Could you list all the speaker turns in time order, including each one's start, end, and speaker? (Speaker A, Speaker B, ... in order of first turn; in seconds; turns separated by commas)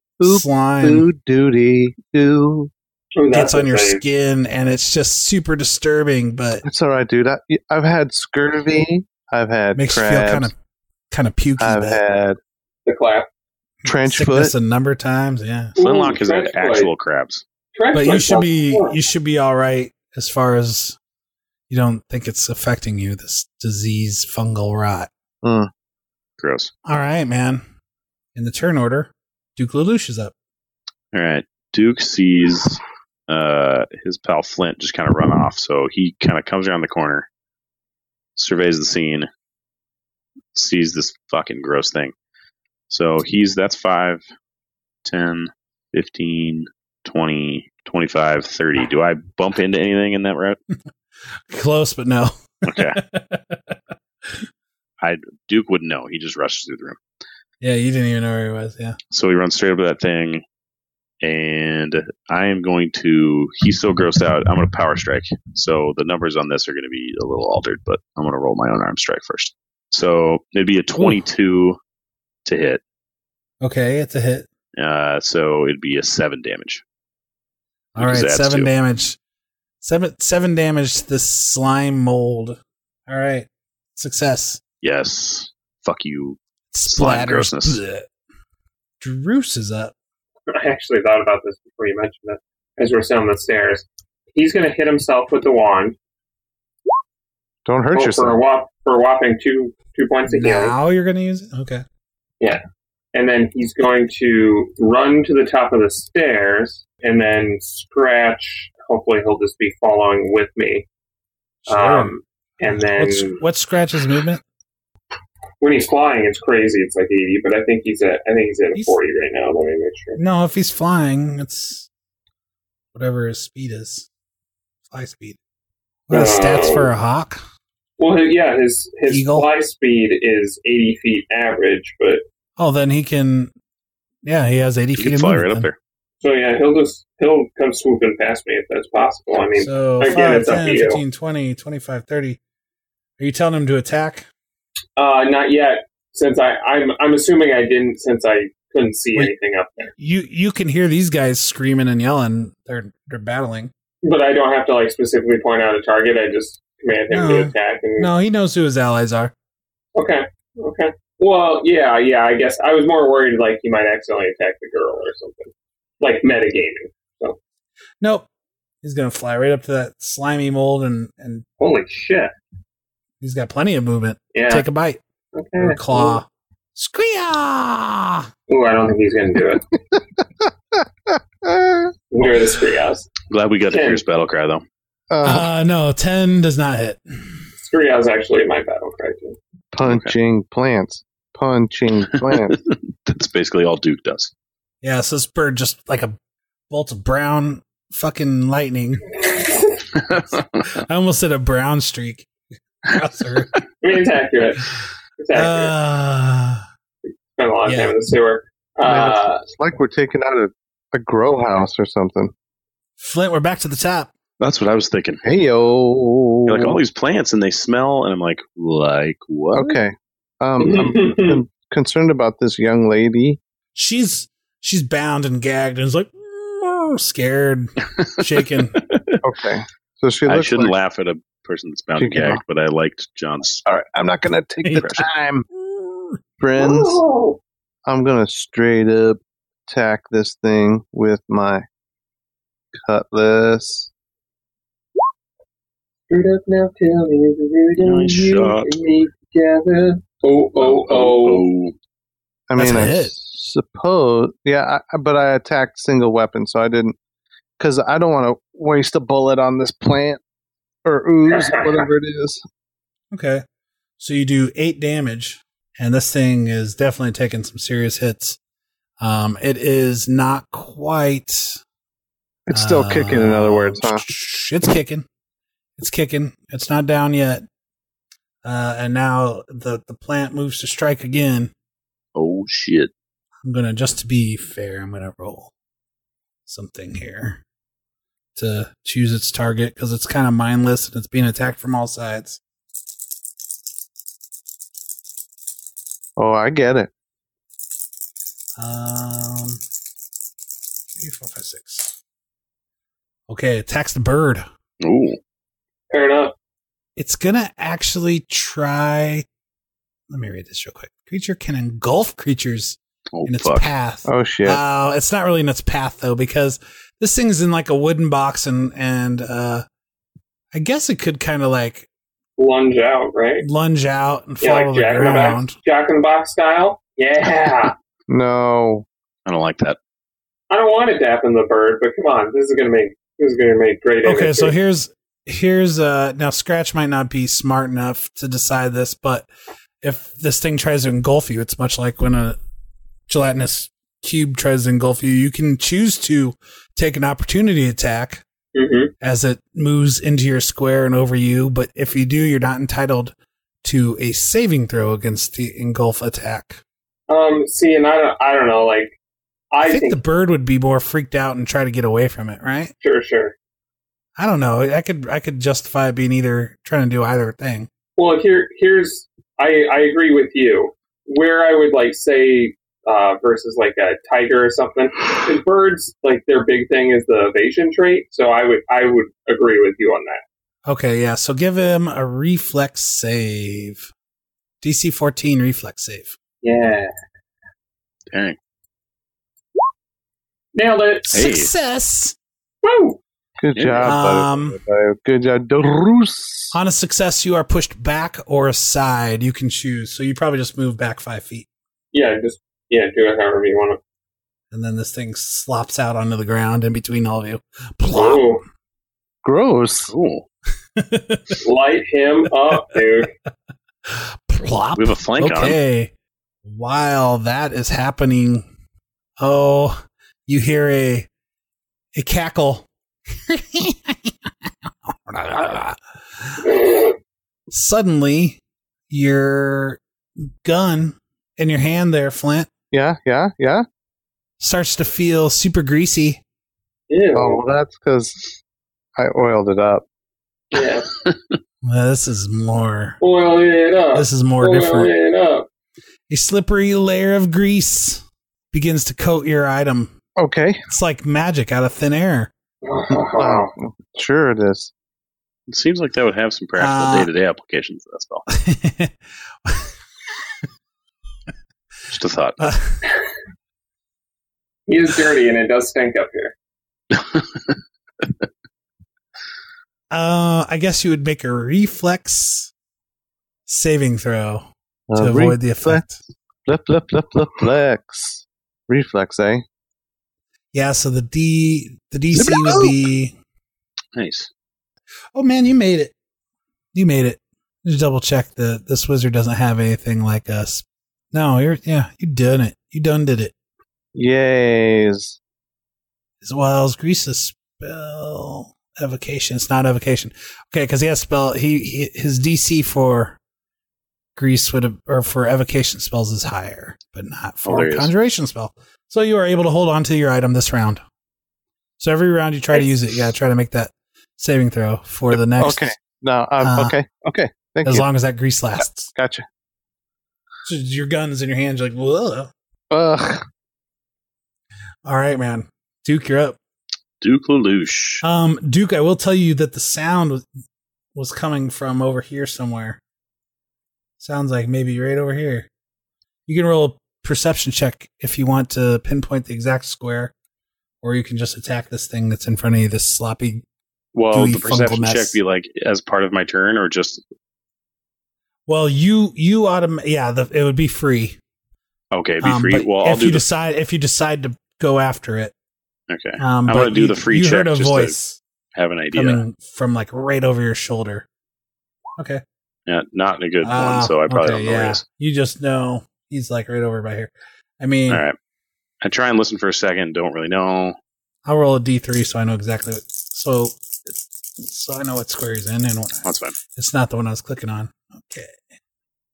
Speaker A: 0.2-2.7, Speaker B: 0.2-1.1, Speaker C: 3.1-4.0, Speaker B: 3.3-6.6, Speaker A: 6.6-10.5, Speaker B: 9.7-10.5, Speaker B: 11.1-12.0, Speaker A: 11.6-12.4, Speaker C: 12.8-13.3, Speaker B: 13.8-15.7, Speaker A: 13.8-14.5, Speaker C: 15.8-16.9, Speaker D: 15.8-17.4, Speaker C: 17.8-18.9, Speaker B: 17.9-21.0, Speaker B: 21.7-25.1, Speaker A: 25.4-25.7, Speaker D: 26.4-26.7, Speaker B: 26.8-27.6, Speaker B: 28.3-30.3, Speaker D: 31.1-37.3, Speaker D: 38.4-39.3, Speaker D: 40.5-42.1, Speaker D: 42.9-44.2, Speaker D: 45.0-50.6, Speaker B: 51.5-53.7, Speaker D: 52.6-53.0, Speaker D: 55.0-57.0, Speaker B: 57.6-59.0, Speaker D: 59.1-60.4, Speaker D: 61.2-71.8, Speaker D: 72.5-72.8, Speaker B: 73.6-74.5, Speaker D: 74.8-76.8, Speaker B: 77.9-79.2, Speaker D: 78.0-78.7, Speaker B: 79.8-84.6, Speaker D: 84.8-86.4, Speaker B: 86.7-88.1, Speaker D: 86.9-87.8, Speaker B: 89.0-89.9, Speaker C: 90.5-96.0, Speaker A: 97.7-98.4, Speaker C: 97.9-100.7, Speaker B: 100.3-101.8, Speaker C: 103.1-110.8, Speaker B: 111.6-114.4, Speaker C: 111.7-113.4, Speaker C: 115.6-120.2, Speaker B: 120.2-121.9, Speaker B: 122.9-124.1, Speaker B: 124.9-125.4, Speaker B: 126.1-127.4, Speaker C: 126.1-126.9, Speaker C: 128.0-132.2, Speaker B: 129.1-129.5, Speaker B: 132.6-133.5, Speaker B: 134.2-135.7, Speaker D: 135.0-135.8, Speaker C: 136.2-141.0, Speaker B: 139.5-142.4, Speaker B: 143.2-144.2, Speaker C: 144.9-149.9, Speaker B: 150.0-153.7, Speaker C: 154.0-158.1, Speaker B: 157.1-159.3, Speaker C: 159.9-167.4, Speaker B: 168.0-168.2, Speaker B: 168.8-171.4, Speaker C: 171.6-172.3, Speaker B: 173.2-175.0, Speaker C: 174.3-174.7, Speaker C: 175.3-176.2, Speaker B: 175.6-178.3, Speaker C: 178.5-179.6, Speaker A: 181.4-181.9, Speaker C: 182.1-183.1, Speaker D: 183.3-184.6, Speaker C: 183.7-184.0, Speaker A: 185.1-185.5, Speaker B: 185.2-187.0, Speaker C: 187.6-189.4, Speaker A: 189.7-192.6, Speaker D: 189.8-190.1, Speaker D: 192.3-194.3, Speaker B: 194.8-196.2, Speaker B: 196.7-199.1, Speaker C: 199.2-199.6, Speaker D: 199.9-200.7, Speaker B: 200.7-202.3, Speaker B: 202.8-203.5, Speaker C: 203.8-204.6, Speaker C: 205.2-205.7, Speaker B: 205.3-206.6, Speaker C: 207.3-209.4, Speaker B: 207.6-207.9, Speaker A: 208.8-212.3, Speaker B: 213.0-214.1, Speaker D: 214.4-215.2, Speaker A: 215.2-216.8, Speaker D: 216.4-219.8, Speaker A: 219.5-223.4, Speaker C: 220.6-221.4, Speaker B: 223.7-228.8, Speaker D: 228.8-229.2, Speaker A: 229.2-230.7, Speaker D: 230.3-233.6, Speaker A: 232.0-232.4, Speaker A: 233.7-235.5, Speaker B: 234.6-236.2, Speaker A: 236.4-237.0, Speaker C: 236.6-237.4, Speaker A: 237.8-241.6, Speaker A: 242.8-243.9, Speaker C: 246.1-251.4, Speaker D: 247.8-248.7, Speaker D: 250.6-251.7, Speaker A: 252.5-256.9, Speaker B: 252.6-253.1, Speaker A: 257.6-260.2, Speaker A: 260.8-262.4, Speaker C: 261.2-261.9, Speaker B: 263.1-263.4, Speaker B: 264.0-268.4, Speaker B: 269.0-271.6, Speaker A: 272.5-274.0, Speaker B: 272.5-275.1, Speaker B: 275.8-277.4, Speaker B: 278.4-281.5, Speaker D: 282.1-282.9, Speaker B: 283.4-285.5, Speaker B: 286.5-287.4, Speaker B: 288.4-292.4, Speaker A: 296.2-296.9, Speaker B: 298.6-299.6, Speaker B: 301.0-302.0, Speaker B: 303.3-304.4, Speaker D: 304.8-305.2, Speaker C: 305.9-306.3, Speaker B: 306.9-309.2, Speaker B: 310.1-319.6, Speaker D: 313.1-313.7, Speaker A: 314.1-314.6, Speaker B: 320.5-321.9, Speaker C: 322.4-323.4, Speaker B: 323.4-325.6, Speaker C: 324.4-327.7, Speaker A: 328.1-328.8, Speaker D: 329.2-329.8, Speaker C: 330.5-334.5, Speaker B: 334.0-339.3, Speaker B: 339.8-342.4, Speaker B: 343.1-348.2, Speaker C: 348.5-348.9, Speaker B: 349.0-356.6, Speaker C: 357.1-359.0, Speaker C: 359.5-360.0, Speaker B: 359.6-362.7, Speaker C: 362.8-363.3, Speaker B: 364.2-367.7, Speaker C: 368.0-380.2, Speaker B: 380.6-383.9, Speaker B: 384.6-386.1, Speaker C: 386.4-386.9, Speaker C: 390.5-391.1, Speaker B: 391.1-392.1, Speaker D: 391.1-391.5, Speaker C: 392.6-393.0, Speaker A: 393.4-396.5, Speaker D: 393.5-393.9, Speaker B: 393.8-394.6, Speaker B: 396.5-401.5, Speaker C: 401.9-403.8, Speaker B: 404.5-408.3, Speaker C: 407.9-408.4, Speaker A: 409.2-409.9, Speaker D: 409.9-410.2, Speaker B: 410.8-411.4, Speaker C: 411.4-413.1, Speaker B: 413.9-415.9, Speaker D: 414.8-415.6, Speaker B: 416.4-418.5, Speaker B: 419.2-421.1, Speaker B: 421.9-426.5, Speaker B: 427.5-429.8, Speaker B: 430.4-432.5, Speaker A: 432.7-433.6, Speaker B: 434.4-436.2, Speaker C: 436.9-437.4, Speaker A: 437.1-438.2, Speaker A: 439.0-439.8, Speaker C: 440.5-440.9, Speaker B: 441.6-443.0, Speaker C: 443.0-445.4, Speaker B: 443.9-444.9, Speaker B: 446.1-449.9, Speaker A: 450.2-450.6, Speaker B: 450.7-452.3, Speaker C: 452.6-453.5, Speaker A: 453.2-454.7, Speaker D: 455.5-458.2, Speaker B: 456.6-457.1, Speaker B: 458.3-459.7, Speaker D: 461.9-462.4, Speaker B: 462.4-462.8, Speaker C: 464.7-466.3, Speaker D: 466.9-467.2, Speaker B: 469.9-472.5, Speaker B: 473.5-476.0, Speaker A: 474.9-475.8, Speaker A: 476.4-479.4, Speaker B: 480.5-483.1, Speaker A: 482.1-482.7, Speaker D: 483.9-484.3, Speaker B: 485.1-485.9, Speaker B: 486.7-493.3, Speaker A: 493.9-495.2, Speaker B: 496.2-503.2, Speaker B: 504.1-510.8, Speaker D: 507.4-507.9, Speaker B: 511.8-515.7, Speaker A: 515.4-517.8, Speaker B: 516.4-516.7, Speaker B: 517.6-518.9, Speaker A: 518.9-519.2, Speaker B: 520.4-522.3, Speaker A: 522.7-523.2, Speaker B: 524.8-526.4, Speaker D: 527.0-528.0, Speaker B: 528.0-530.2, Speaker B: 530.9-532.8, Speaker B: 534.0-535.5, Speaker B: 536.3-540.1, Speaker B: 540.8-543.4, Speaker D: 543.9-547.0, Speaker B: 544.1-545.2, Speaker B: 548.5-551.2, Speaker D: 551.9-553.2, Speaker B: 552.2-555.3, Speaker D: 555.9-557.9, Speaker B: 556.2-558.2, Speaker D: 558.5-559.2, Speaker B: 558.9-561.1, Speaker B: 562.0-562.2, Speaker D: 562.7-564.8, Speaker B: 563.4-568.0, Speaker D: 567.9-568.1, Speaker D: 568.8-570.8, Speaker B: 571.2-578.4, Speaker D: 576.0-576.4